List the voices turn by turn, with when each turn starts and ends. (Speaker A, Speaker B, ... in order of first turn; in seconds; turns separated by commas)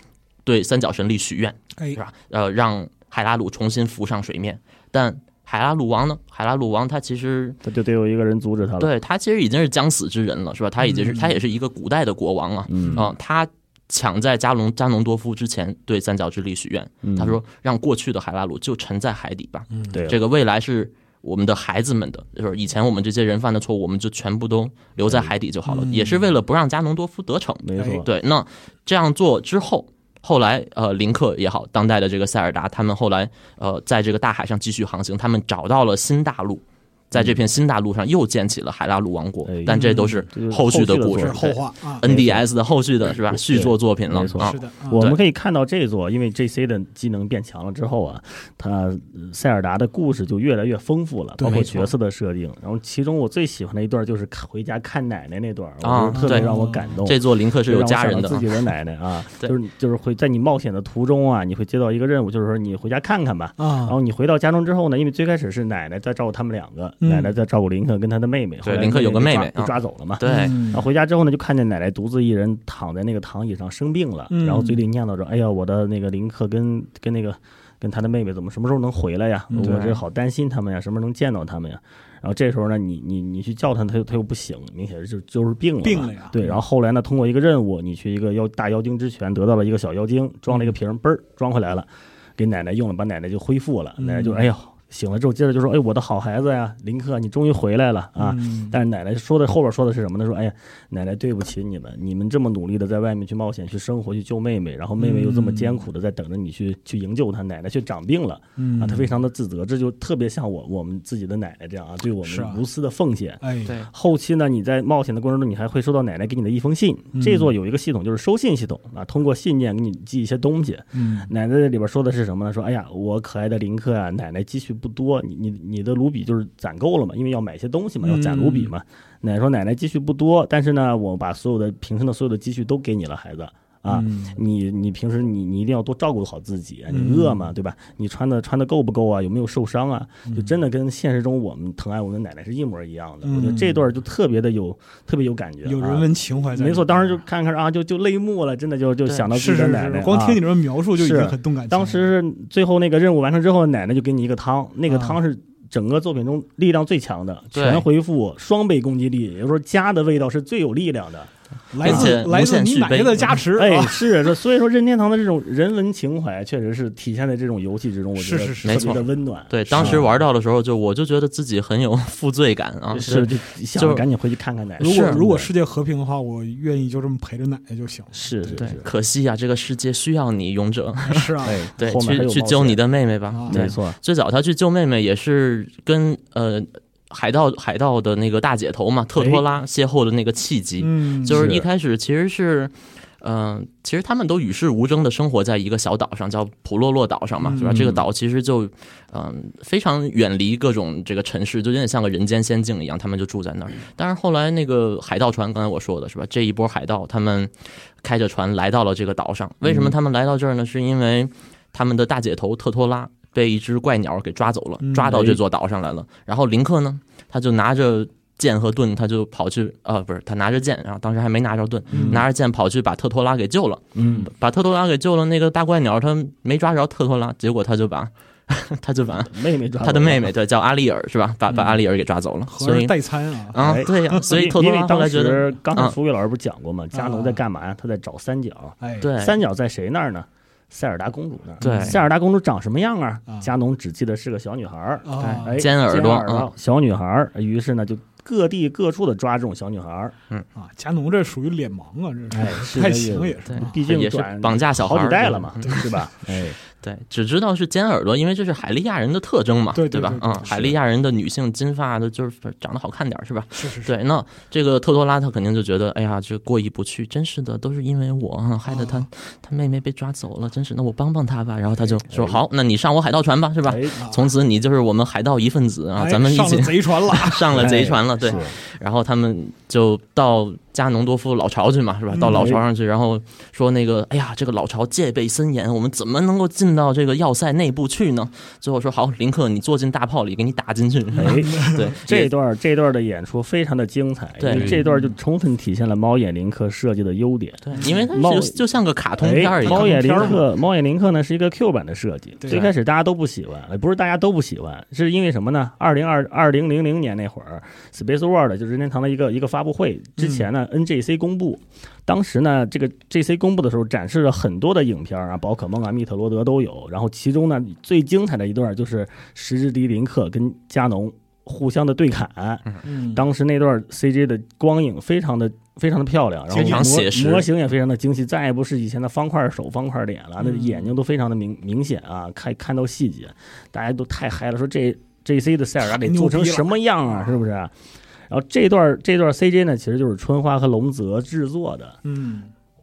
Speaker A: 0.5-7.6, Speaker B: 7.6-8.9, Speaker A: 8.8-45.2, Speaker C: 10.8-11.3, Speaker B: 12.7-13.1, Speaker B: 17.0-17.4, Speaker C: 19.7-20.0, Speaker B: 19.9-20.2, Speaker B: 25.0-25.3, Speaker C: 25.7-26.2, Speaker B: 27.6-28.1, Speaker C: 27.8-28.0, Speaker B: 37.1-37.4, Speaker B: 39.5-41.4, Speaker C: 39.7-40.2, Speaker C: 41.2-42.0, Speaker B: 42.0-42.5, Speaker B: 43.0-150.4, Speaker C: 44.4-45.1, Speaker C: 51.4-51.8, Speaker A: 51.4-51.9, Speaker A: 55.8-58.5, Speaker C: 56.1-57.0, Speaker C: 63.6-64.0, Speaker C: 67.0-67.3, Speaker A: 68.6-70.6, Speaker C: 70.2-70.8, Speaker C: 74.3-74.8, Speaker C: 79.5-79.8, Speaker A: 79.6-80.0, Speaker C: 85.8-86.6, Speaker C: 94.0-94.5, Speaker C: 98.2-98.8, Speaker C: 105.0-105.8, Speaker C: 108.6-109.2, Speaker C: 112.2-112.6, Speaker C: 113.4-113.8, Speaker C: 117.1-117.5, Speaker C: 120.9-121.3, Speaker C: 128.0-128.7, Speaker C: 133.9-134.4, Speaker C: 136.9-137.5, Speaker C: 140.3-140.6, Speaker C: 143.2-143.8, Speaker C: 145.7-147.2, Speaker C: 149.3-152.1, Speaker B: 150.9-162.2, Speaker C: 154.9-155.2, Speaker A: 157.5-157.9, Speaker C: 161.7-164.1, Speaker A: 161.8-163.4, Speaker B: 163.6-170.2, Speaker C: 168.2-169.1, Speaker A: 168.7-174.1, Speaker C: 169.8-170.0, Speaker B: 172.9-175.5, Speaker A: 174.8-175.2, Speaker C: 174.8-178.8, Speaker B: 178.1-178.9, Speaker A: 178.6-233.0, Speaker C: 181.0-181.7, Speaker B: 181.4-182.8, Speaker C: 183.3-183.7, Speaker B: 183.5-184.0, Speaker C: 190.8-191.5, Speaker B: 191.3-191.7, Speaker C: 197.4-197.9, Speaker B: 197.7-198.0, Speaker B: 209.6-209.9, Speaker C: 214.8-215.2, Speaker B: 215.1-215.4, Speaker C: 221.9-222.2, Speaker B: 221.9-222.2, Speaker B: 223.9-224.3, Speaker B: 229.2-230.3, Speaker C: 231.5-231.8, Speaker C: 232.5-234.3, Speaker A: 233.5-236.0, Speaker B: 233.6-250.2, Speaker C: 236.9-237.4, Speaker C: 238.8-239.1, Speaker A: 239.0-239.4, Speaker C: 241.6-242.0, Speaker A: 241.6-242.0, Speaker C: 245.0-245.7, Speaker A: 245.2-246.5, Speaker C: 250.6-253.7, Speaker B: 252.3-256.6, Speaker A: 253.5-255.8, Speaker A: 256.7-292.3, Speaker C: 259.7-260.7, Speaker B: 260.5-260.8, Speaker C: 263.5-264.0, Speaker C: 268.6-269.1, Speaker B: 272.1-272.4, Speaker B: 273.6-274.0, Speaker C: 274.0-274.3, Speaker C: 276.0-278.5, Speaker B: 277.6-278.5, Speaker C: 282.1-282.6, Speaker B: 282.3-282.6, Speaker C: 291.1-291.9, Speaker B: 291.1-298.6, Speaker A: 294.4-294.8, Speaker C: 294.5-295.2, Speaker A: 297.6-300.4, Speaker C: 297.7-298.1, Speaker B: 299.2-337.7, Speaker C: 299.6-300.4, Speaker C: 302.4-302.7, Speaker C: 310.2-310.5, Speaker C: 322.8-323.3, Speaker C: 326.5-327.1, Speaker A: 326.6-327.5, Speaker C: 330.4-330.9, Speaker C: 335.8-337.4, Speaker B: 338.3-342.0, Speaker C: 342.0-342.5